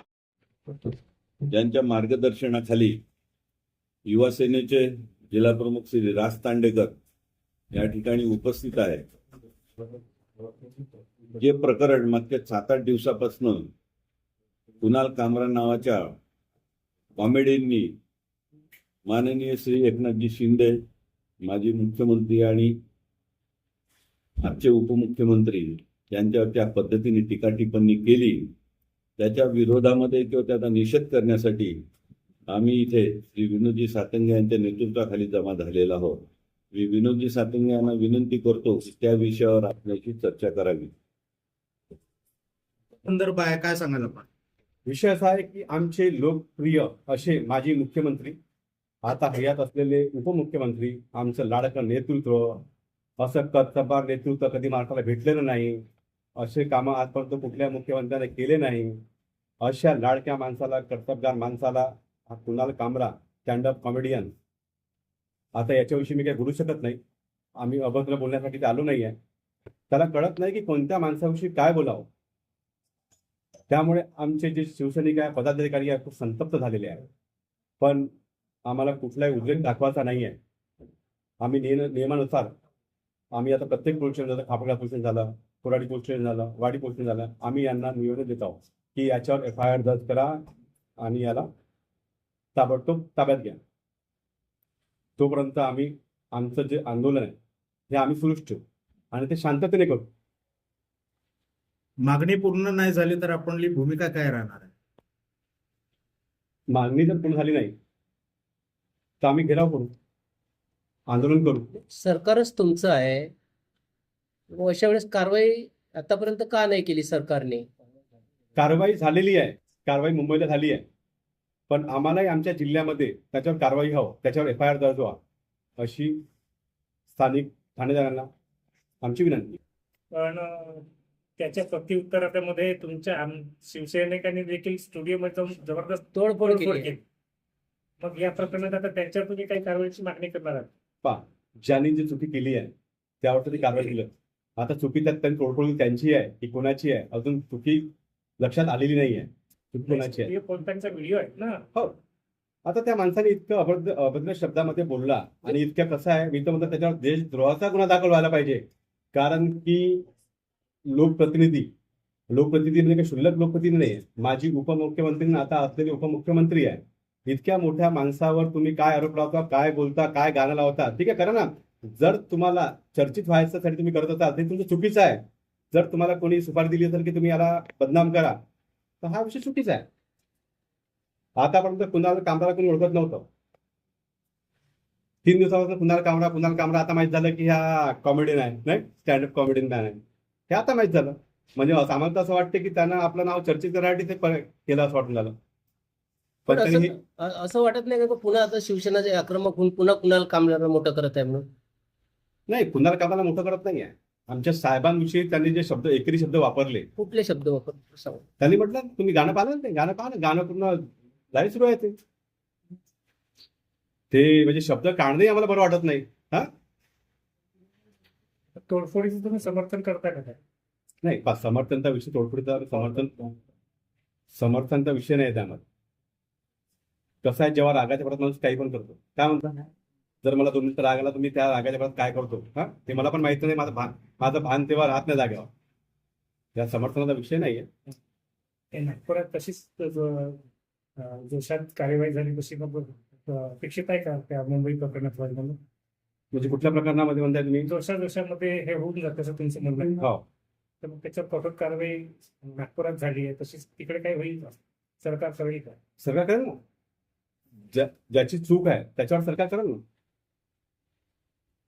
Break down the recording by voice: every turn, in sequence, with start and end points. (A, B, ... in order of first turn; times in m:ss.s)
0:01.5-0:03.0 A
0:04.1-0:06.9 A
0:07.7-0:09.0 A
0:11.4-0:13.7 A
0:14.8-0:16.2 A
0:17.2-0:17.9 A
0:19.1-0:20.8 A
0:21.4-0:22.8 A
0:24.4-0:28.5 A
0:29.2-0:31.8 A
0:32.5-0:40.9 A
0:43.1-0:44.2 B
0:44.9-0:48.4 C
0:49.0-0:52.6 C
0:53.2-0:55.8 C
0:56.4-0:59.0 C
0:59.6-1:04.3 C
1:05.6-1:07.0 C
1:07.6-1:09.2 C
1:09.9-1:12.1 C
1:13.7-1:17.0 C
1:17.8-1:18.1 C
1:18.7-1:20.4 C
1:21.4-1:22.5 C
1:23.3-1:30.4 C
1:31.0-1:31.5 C
1:32.6-1:33.6 C
1:35.2-1:37.4 C
1:37.9-1:38.6 C
1:39.1-1:40.1 C
1:42.1-1:44.6 B
1:46.7-1:47.7 C
1:49.2-1:49.9 C
1:51.1-1:51.7 C
1:51.7-1:53.3 D
1:54.5-1:57.7 D
1:58.6-2:00.8 C
2:01.7-2:05.2 C
2:05.8-2:06.2 C
2:07.1-2:08.3 C
2:09.0-2:09.6 C
2:10.1-2:10.9 E
2:11.4-2:17.0 E
2:16.2-2:17.0 D
2:18.0-2:20.7 E
2:21.0-2:30.3 C
2:29.8-2:31.6 E
2:32.6-2:38.6 C
2:39.1-2:40.0 C
2:40.9-2:41.7 C
2:42.3-2:55.2 C
2:55.7-2:58.4 C
2:59.0-2:59.8 C
3:01.4-3:03.3 C
3:05.2-3:15.3 C
3:16.5-3:17.0 C
3:16.5-3:21.5 D
3:22.5-3:26.9 C
3:27.0-3:28.2 D
3:28.4-3:32.0 C
3:34.1-3:36.5 C
3:38.7-3:40.4 E
3:41.0-3:43.3 C
3:44.3-3:45.6 C
3:47.2-3:49.6 C
3:50.2-3:55.5 C
3:56.6-3:57.7 C
3:58.7-4:00.4 E
4:01.0-4:05.6 E
4:06.3-4:07.7 C
4:07.7-4:10.1 E
4:10.8-4:15.8 E
4:16.0-4:16.6 C
4:17.7-4:19.8 C